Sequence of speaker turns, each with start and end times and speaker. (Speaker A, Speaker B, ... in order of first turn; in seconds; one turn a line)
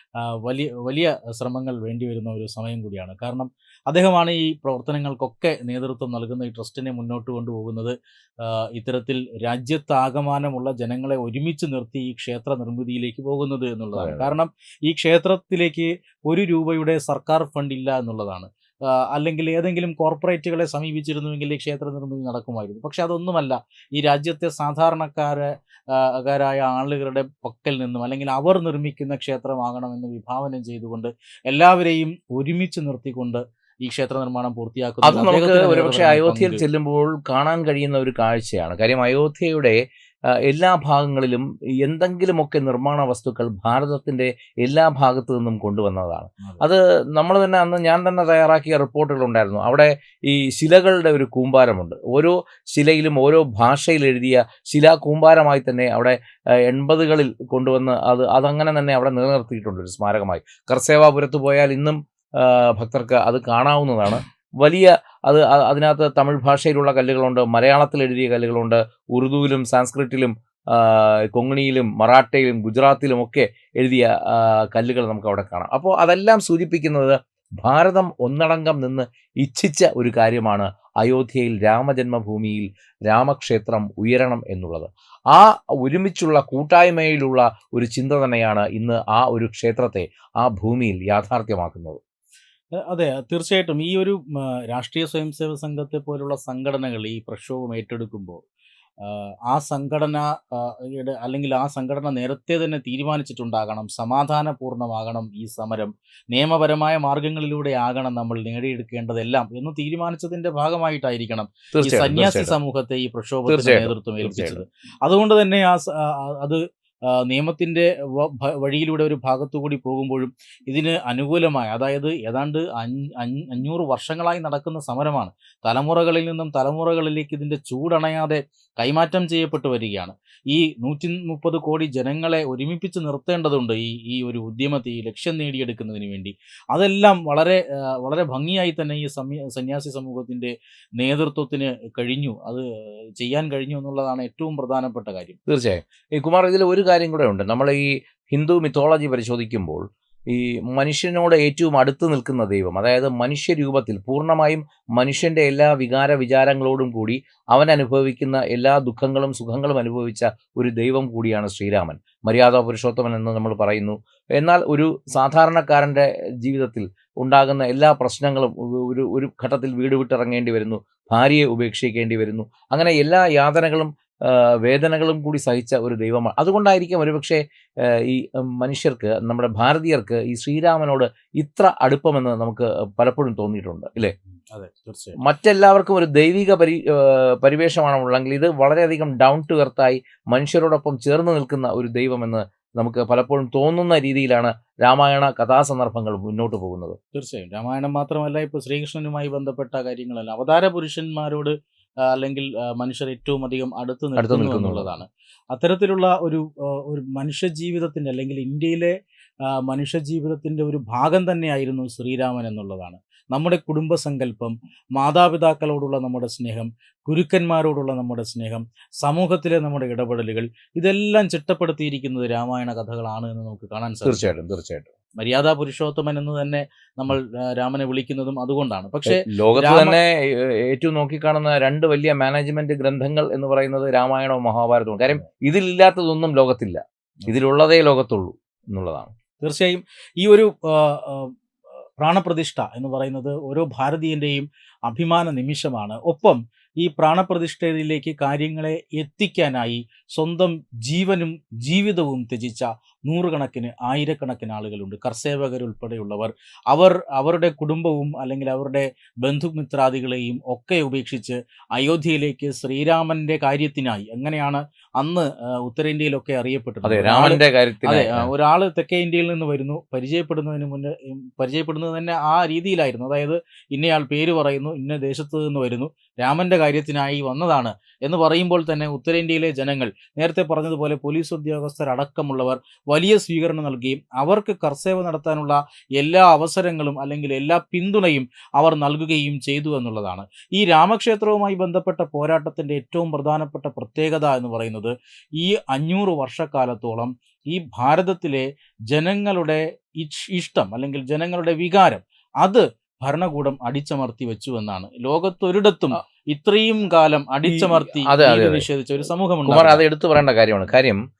Speaker A: 0.3-36.6
Speaker B: 14.0-14.3
Speaker B: 35.0-39.8
Speaker B: 40.4-92.0
Speaker A: 92.8-98.4
Speaker A: 99.0-142.7
Speaker B: 111.7-112.6
Speaker B: 113.5-114.6
Speaker A: 143.2-145.4
Speaker B: 145.5-184.1
Speaker A: 184.5-185.2
Speaker B: 185.2-197.0
Speaker A: 197.1-208.9
Speaker B: 204.2-204.9
Speaker A: 209.5-224.2
Speaker B: 224.1-224.9
Speaker A: 225.2-230.0
Speaker B: 229.1-239.1
Speaker A: 239.4-241.3
Speaker A: 242.0-309.8
Speaker B: 266.8-268.3
Speaker B: 307.5-308.7
Speaker B: 309.5-311.0